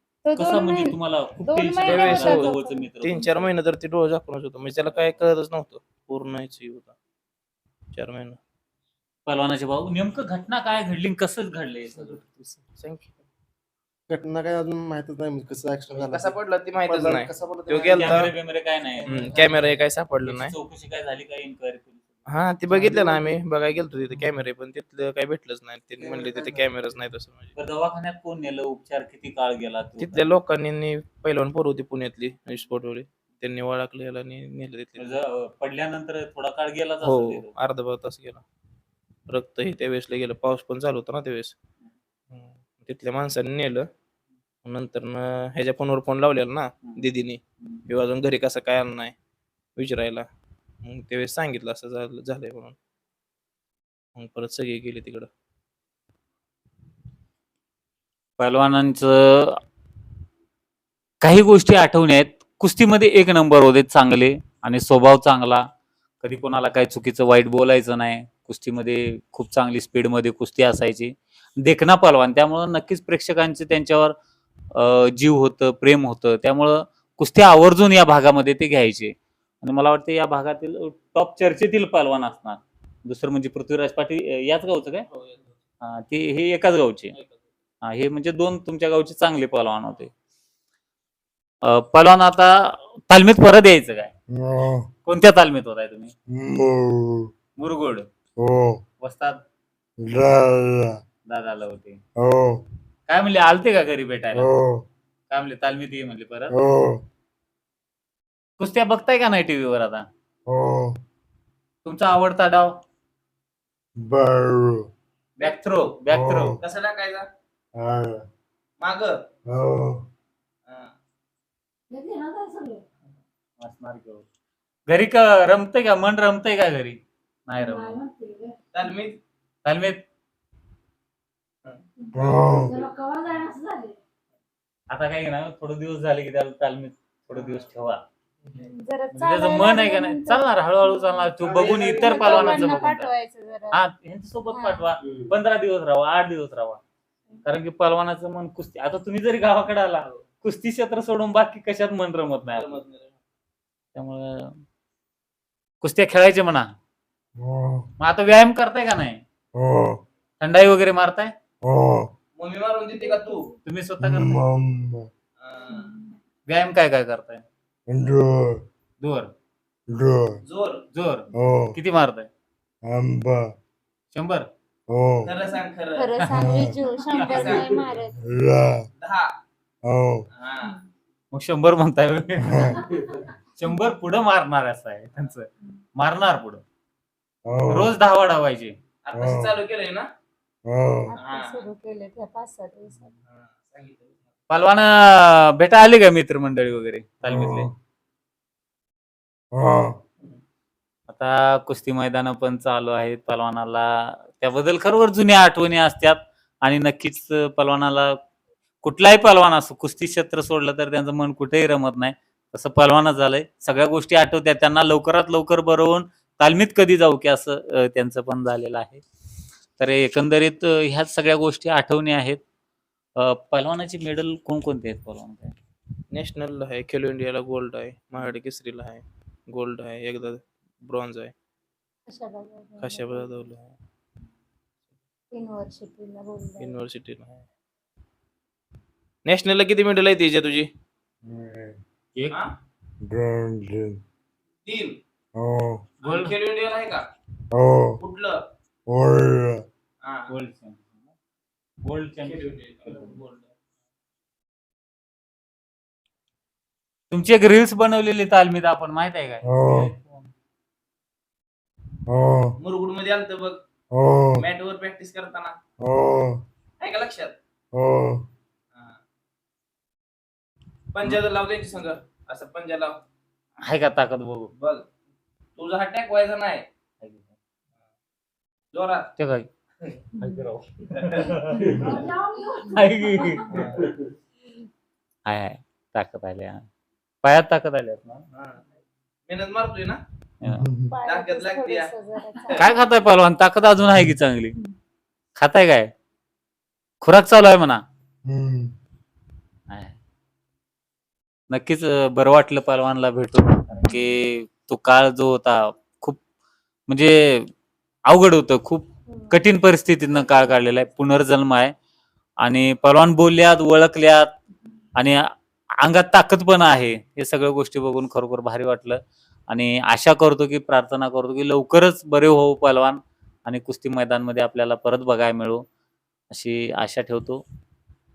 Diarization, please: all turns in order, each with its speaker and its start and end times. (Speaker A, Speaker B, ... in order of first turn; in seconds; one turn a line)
Speaker A: 0.2-3.4
Speaker B: 0.3-3.2
Speaker C: 1.8-6.9
Speaker C: 7.9-8.4
Speaker B: 9.2-12.2
Speaker C: 12.0-13.1
Speaker D: 14.1-18.3
Speaker C: 15.9-18.3
Speaker B: 17.8-19.3
Speaker C: 19.0-20.5
Speaker D: 19.1-19.6
Speaker B: 20.2-22.0
Speaker C: 22.3-27.5
Speaker D: 22.7-23.2
Speaker D: 26.2-26.6
Speaker B: 27.6-30.3
Speaker C: 30.0-35.1
Speaker B: 35.0-37.5
Speaker C: 37.0-38.4
Speaker C: 39.3-41.5
Speaker C: 42.3-43.9
Speaker C: 44.6-49.1
Speaker C: 49.8-50.2
Speaker C: 50.8-52.8
Speaker C: 54.1-55.3
Speaker B: 58.4-59.6
Speaker B: 61.2-65.6
Speaker B: 66.2-74.1
Speaker B: 74.7-85.0
Speaker C: 85.1-85.5
Speaker B: 85.8-87.1
Speaker B: 87.8-90.1
Speaker B: 91.6-94.1
Speaker E: 94.3-94.9
Speaker B: 95.0-96.1
Speaker E: 96.3-97.3
Speaker B: 97.6-98.1
Speaker E: 98.4-98.8
Speaker B: 99.0-99.4
Speaker E: 100.0-101.0
Speaker B: 101.3-102.0
Speaker E: 102.2-102.6
Speaker B: 103.1-104.5
Speaker E: 104.3-104.8
Speaker B: 105.3-106.5
Speaker E: 106.5-107.0
Speaker B: 108.6-110.0
Speaker E: 110.5-111.0
Speaker B: 111.8-112.8
Speaker E: 114.0-114.9
Speaker B: 115.4-116.6
Speaker E: 116.1-116.6
Speaker C: 116.6-117.3
Speaker E: 117.8-118.2
Speaker C: 118.8-119.2
Speaker E: 119.5-120.0
Speaker C: 120.7-120.9
Speaker A: 121.9-122.8
Speaker B: 123.6-124.2
Speaker B: 124.9-128.0
Speaker A: 127.6-128.5
Speaker C: 128.7-129.2
Speaker B: 129.6-130.0
Speaker E: 132.1-132.8
Speaker A: 132.1-133.9
Speaker B: 134.9-138.0
Speaker C: 137.3-137.6
Speaker A: 138.6-143.8
Speaker B: 139.1-143.1
Speaker C: 141.4-142.8
Speaker B: 143.7-146.8
Speaker A: 144.5-144.9
Speaker B: 147.4-152.8
Speaker C: 152.5-153.2
Speaker B: 153.9-154.6
Speaker B: 155.8-156.7
Speaker E: 157.3-157.9
Speaker B: 158.0-159.2
Speaker E: 159.5-160.0
Speaker B: 160.4-161.3
Speaker E: 161.6-162.1
Speaker C: 162.4-163.5
Speaker A: 163.0-163.4
Speaker B: 163.6-164.4
Speaker E: 164.0-165.1
Speaker C: 165.4-165.9
Speaker A: 165.7-166.1
Speaker B: 166.5-167.4
Speaker E: 167.9-168.6
Speaker B: 169.0-169.3
Speaker E: 169.9-170.4
Speaker C: 170.4-170.8
Speaker B: 170.9-172.3
Speaker E: 171.3-171.8
Speaker E: 172.8-173.5
Speaker B: 174.1-174.5
Speaker E: 174.9-175.3
Speaker C: 175.2-176.1
Speaker A: 175.9-178.2
Speaker E: 176.3-176.7
Speaker C: 177.1-177.8
Speaker E: 178.2-178.9
Speaker C: 179.0-179.3
Speaker E: 179.8-180.3
Speaker C: 180.3-180.8
Speaker B: 181.3-186.6
Speaker E: 182.4-182.8
Speaker E: 187.4-187.9
Speaker B: 187.7-188.7
Speaker C: 189.0-190.1
Speaker E: 189.1-189.6
Speaker E: 190.6-191.1
Speaker A: 191.1-193.1
Speaker C: 191.2-191.6
Speaker C: 193.3-194.7
Speaker B: 194.5-197.7
Speaker E: 197.2-197.7
Speaker E: 199.5-200.0
Speaker B: 201.1-208.2
Speaker B: 208.8-219.0
Speaker B: 219.8-222.4
Speaker B: 223.2-225.5
Speaker C: 226.1-231.3
Speaker A: 232.1-233.4
Speaker C: 232.8-233.7
Speaker A: 235.3-236.8
Speaker C: 236.6-237.4
Speaker C: 239.2-240.7
Speaker E: 241.2-241.8
Speaker E: 243.0-244.0
Speaker C: 244.6-245.0
Speaker E: 245.3-245.9
Speaker C: 246.0-247.0
Speaker B: 246.0-246.3
Speaker E: 247.5-248.0
Speaker C: 248.0-248.4
Speaker E: 248.9-249.6
Speaker C: 250.0-250.3
Speaker B: 250.3-251.0
Speaker B: 251.8-253.1
Speaker C: 252.2-253.5
Speaker B: 257.1-260.3
Speaker E: 259.4-259.9
Speaker E: 262.1-262.6
Speaker C: 262.6-263.6
Speaker E: 263.9-264.4
Speaker C: 264.3-265.6
Speaker E: 265.8-266.4
Speaker C: 266.8-267.3
Speaker E: 267.7-268.3
Speaker C: 270.9-273.0
Speaker B: 273.6-274.5
Speaker C: 274.5-274.8
Speaker C: 275.6-276.6
Speaker B: 277.0-277.3
Speaker C: 278.7-279.1
Speaker B: 279.2-279.5
Speaker B: 280.1-283.9
Speaker C: 280.9-281.3
Speaker A: 281.7-282.3
Speaker C: 283.5-283.8
Speaker B: 285.2-286.7
Speaker B: 287.2-288.2
Speaker C: 288.3-288.6
Speaker C: 289.3-290.0
Speaker B: 290.4-290.7
Speaker E: 290.5-290.9
Speaker A: 290.9-292.8
Speaker C: 291.1-291.9
Speaker B: 292.5-294.6
Speaker B: 295.4-295.9
Speaker B: 297.0-297.8
Speaker E: 298.2-298.7
Speaker B: 299.7-300.0
Speaker B: 301.5-306.2
Speaker B: 306.9-307.5
Speaker B: 308.1-311.7
Speaker A: 309.1-309.3
Speaker B: 312.4-314.3
Speaker B: 314.9-325.6
Speaker B: 326.3-327.4